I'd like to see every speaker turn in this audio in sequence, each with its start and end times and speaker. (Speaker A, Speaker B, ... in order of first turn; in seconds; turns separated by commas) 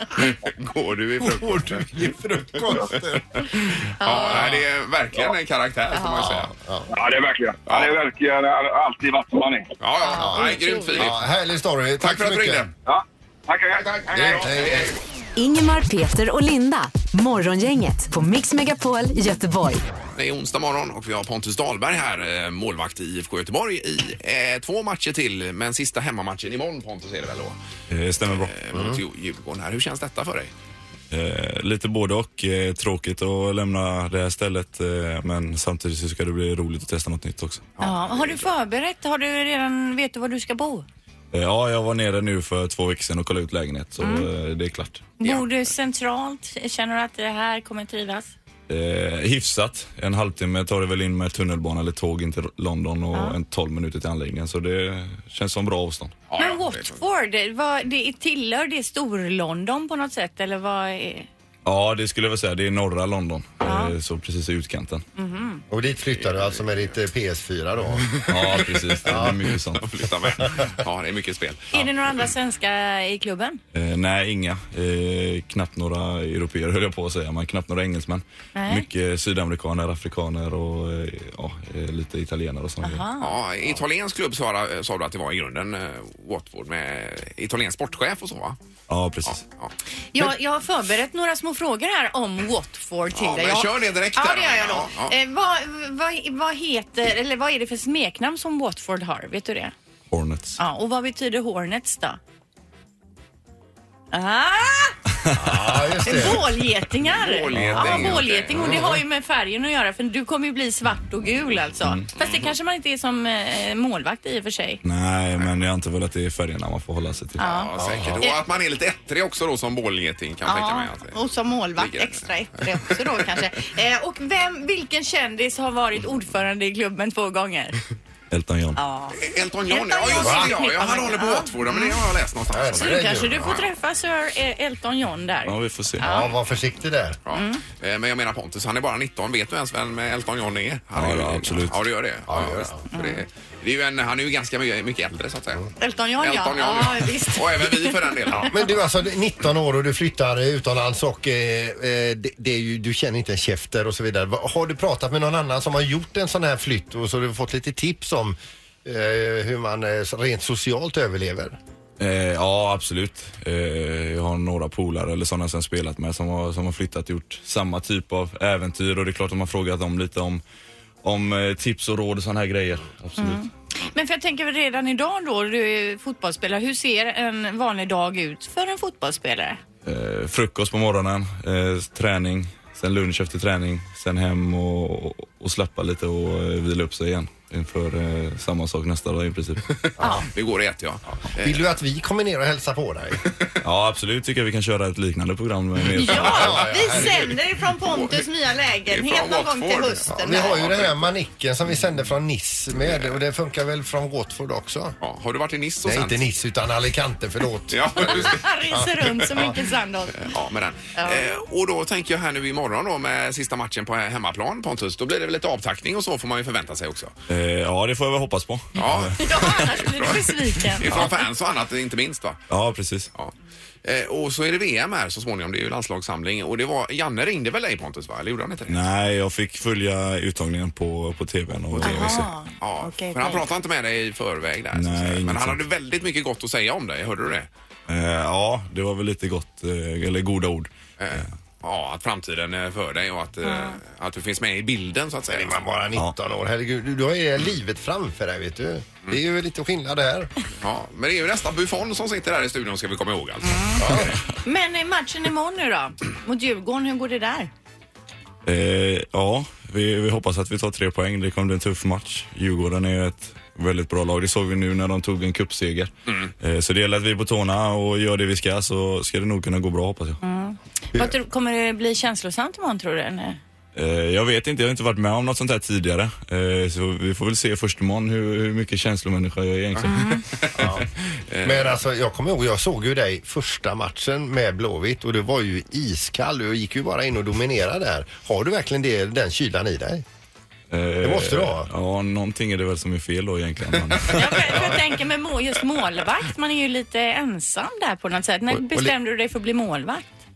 Speaker A: 0.2-1.9, Speaker B: 0.7-3.5, Speaker A: 3.7-6.5, Speaker C: 4.0-4.5, Speaker C: 6.0-6.3, Speaker B: 6.1-6.9, Speaker D: 6.9-9.7, Speaker A: 7.7-7.9, Speaker A: 9.8-11.2, Speaker C: 10.0-11.1, Speaker B: 10.2-12.7, Speaker A: 12.0-12.7, Speaker D: 12.9-14.8, Speaker A: 13.8-14.9, Speaker B: 14.1-14.9, Speaker E: 15.4-19.8, Speaker A: 20.1-27.6, Speaker F: 27.9-28.5, Speaker A: 28.2-30.5, Speaker F: 31.1-37.7, Speaker A: 37.8-38.5, Speaker C: 37.8-40.9, Speaker F: 41.3-45.1, Speaker C: 44.0-44.3, Speaker C: 45.2-48.3, Speaker F: 48.7-56.2, Speaker C: 53.1-53.4, Speaker A: 56.3-57.0, Speaker C: 56.4-61.3, Speaker F: 61.6-65.0, Speaker C: 63.6-64.0, Speaker C: 65.2-65.6, Speaker B: 65.7-68.1, Speaker A: 66.2-66.8, Speaker F: 68.3-69.9, Speaker B: 69.0-69.4, Speaker A: 69.8-71.7, Speaker C: 71.7-73.6, Speaker F: 73.7-83.1, Speaker C: 78.5-78.9, Speaker C: 82.8-83.3, Speaker A: 83.2-88.6, Speaker F: 88.9-89.4, Speaker A: 89.2-89.7, Speaker C: 90.1-99.7, Speaker A: 93.1-95.1, Speaker F: 100.1-100.6, Speaker C: 100.6-102.2, Speaker C: 104.1-105.0, Speaker F: 105.2-106.0, Speaker B: 105.4-106.5, Speaker C: 106.0-114.8, Speaker A: 107.1-108.8, Speaker F: 107.5-108.2, Speaker F: 111.8-112.1, Speaker F: 114.8-117.5, Speaker C: 117.4-118.4, Speaker A: 117.4-121.2, Speaker B: 117.8-118.1, Speaker C: 120.5-127.8, Speaker A: 121.8-123.4, Speaker F: 128.3-128.8, Speaker C: 128.8-132.0, Speaker A: 129.1-133.6, Speaker B: 130.2-130.5, Speaker B: 132.5-133.6, Speaker C: 132.8-136.3, Speaker F: 135.4-136.0, Speaker B: 136.0-137.2, Speaker A: 137.2-145.7, Speaker C: 137.3-137.6, Speaker F: 141.0-141.8, Speaker B: 142.3-142.8, Speaker C: 142.9-143.2, Speaker C: 145.8-148.5, Speaker A: 146.2-148.6, Speaker B: 148.4-161.6, Speaker F: 162.0-170.4, Speaker F: 171.0-173.4, Speaker C: 173.2-179.6, Speaker F: 179.8-189.7, Speaker A: 190.3-191.6, Speaker B: 191.4-193.2, Speaker F: 193.6-196.7, Speaker C: 195.9-200.6, Speaker B: 196.2-197.3, Speaker A: 196.9-197.2, Speaker A: 197.8-198.2, Speaker A: 198.9-201.1, Speaker B: 200.1-205.0, Speaker A: 202.8-203.2, Speaker A: 205.0-206.3, Speaker B: 205.8-209.5, Speaker A: 207.7-208.5, Speaker C: 208.0-210.3, Speaker A: 210.2-217.1, Speaker C: 211.0-211.3, Speaker F: 217.3-219.8, Speaker A: 218.8-222.4, Speaker C: 219.2-221.1, Speaker F: 222.5-223.1, Speaker A: 223.8-228.9, Speaker F: 228.7-232.3, Speaker A: 231.8-232.1, Speaker C: 231.8-233.5, Speaker A: 232.6-237.5, Speaker F: 234.7-235.6, Speaker F: 237.9-241.3, Speaker A: 241.0-245.6, Speaker C: 243.4-243.8, Speaker B: 245.3-250.3, Speaker A: 250.6-254.0, Speaker C: 253.4-253.9, Speaker B: 253.8-254.2, Speaker C: 254.4-257.5, Speaker F: 258.5-270.2, Speaker C: 270.2-273.4, Speaker F: 273.8-280.2, Speaker C: 279.9-280.2, Speaker A: 280.4-280.7, Speaker B: 280.6-280.8, Speaker A: 281.3-281.8, Speaker B: 281.4-290.0, Speaker F: 290.7-294.8, Speaker B: 291.0-291.7, Speaker C: 294.1-300.0